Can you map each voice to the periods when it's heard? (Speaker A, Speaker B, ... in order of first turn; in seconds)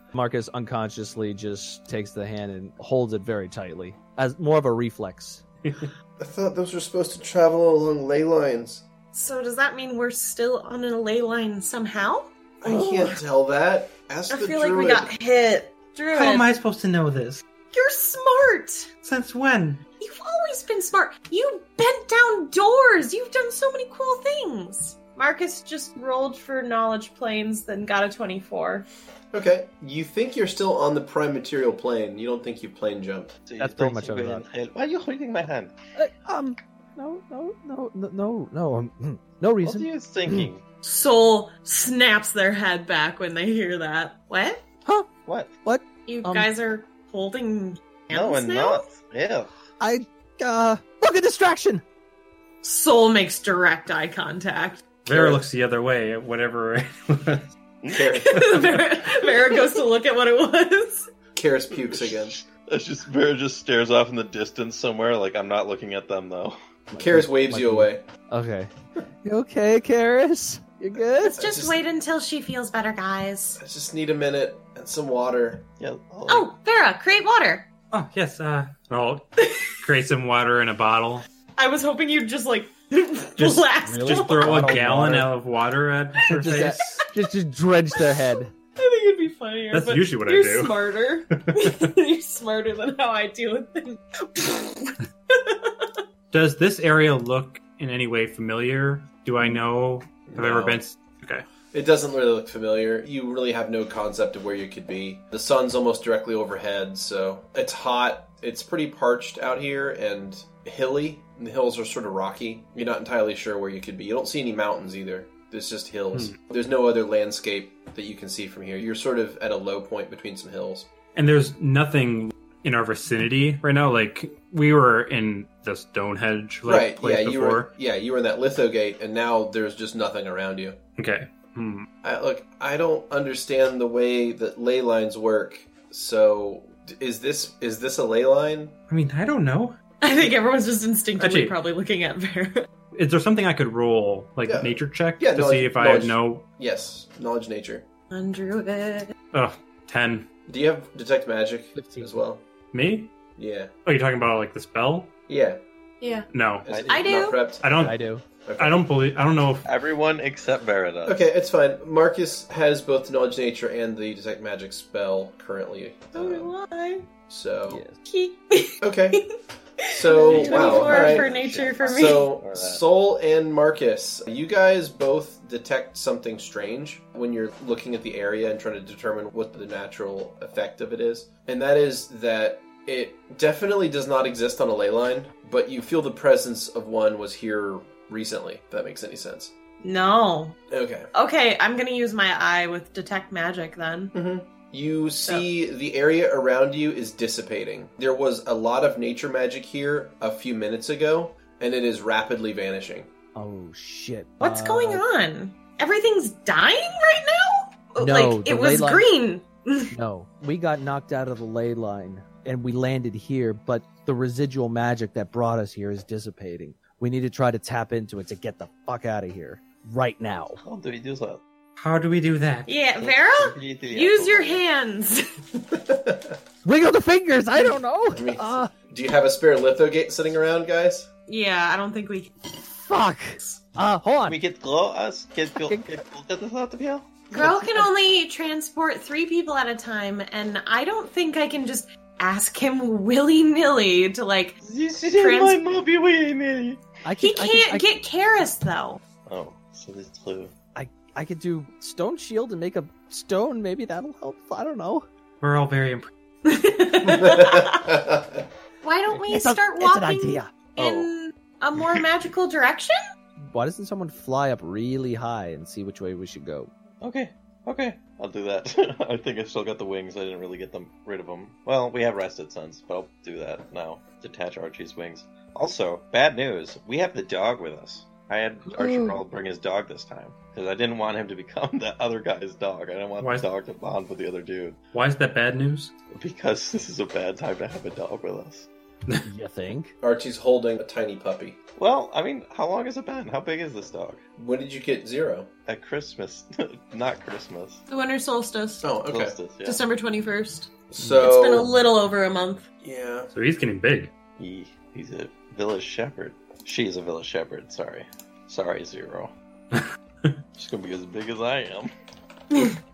Speaker A: 0.1-5.4, 33.6-34.5, 36.0-40.5, 45.6-46.5, 49.8-51.8, 66.9-68.7, 69.2-71.4, 83.8-85.3, 86.2-88.5, 151.8-152.2, 157.8-158.2, 167.7-168.0, 203.3-205.0, 208.0-209.1, 209.9-220.6, 226.7-228.7, 232.7-234.4, 235.6-236.0, 237.3-237.9, 247.0-247.9, 250.8-255.1, 259.2-260.5, 263.5-266.7, 278.7-279.2, 289.2-289.9
Speaker B: 6.2-8.8, 12.6-15.1, 29.3-33.4, 55.1-55.4, 57.8-58.7, 61.4-62.4, 67.0-68.0, 71.2-71.8, 73.6-75.7, 100.3-100.8, 101.7-120.9, 126.7-130.8, 132.0-138.8, 144.5-147.8, 150.5-152.4, 153.4-153.7, 155.3-155.6, 156.6-157.9, 158.4-158.8, 161.1-166.5, 167.3-167.8, 168.8-169.2, 169.9-171.3, 171.8-189.5, 190.7-191.1, 194.1-203.1, 225.7-226.4, 227.5-231.1, 257.2-258.4, 290.0-291.6, 294.4-295.5, 298.8-299.4, 300.9-301.7, 302.8-303.3
Speaker C: 9.1-13.2, 14.3-16.5, 17.7-18.9, 20.0-28.9, 40.8-44.6, 46.1-48.9, 52.6-54.9, 58.0-61.1, 71.2-73.6, 76.3-77.7, 79.4-79.7, 81.6-84.6, 86.4-86.9, 88.8-95.9, 140.0-142.7, 148.1-149.1, 156.0-156.3, 156.9-157.4, 166.1-167.1, 168.1-169.3, 169.8-172.3, 189.8-190.6, 191.1-194.1, 204.4-209.9, 222.7-225.3, 231.3-232.4, 237.3-245.8, 247.2-249.0, 256.4-257.8, 258.8-263.0, 297.9-298.9, 299.6-302.6, 312.5-312.8
Speaker D: 16.1-17.4, 19.0-19.8, 55.0-57.5, 77.9-79.3, 79.8-81.2, 83.4-87.0, 89.7-90.8, 91.3-91.9, 96.3-101.4, 121.2-127.7, 131.0-131.9, 138.9-139.8, 141.2-141.6, 142.9-146.5, 149.3-150.3, 152.7-153.1, 153.8-155.1, 156.3-156.7, 157.6-158.0, 158.6-159.7, 221.8-222.8, 255.4-256.1, 283.2-283.4, 284.9-285.9, 303.3-304.1, 309.8-310.3
Speaker E: 33.5-35.8, 39.6-40.6, 45.3-45.5, 48.1-49.5, 61.7-66.6, 75.8-76.5, 156.7-157.3, 159.7-161.2, 170.3-172.8, 220.6-221.4, 222.9-224.7, 234.2-237.2, 244.6-246.8, 249.3-250.5, 260.8-261.1, 267.0-284.8, 286.1-288.7, 291.8-294.2, 295.7-297.8, 299.0-299.8, 304.4-309.3, 310.6-311.9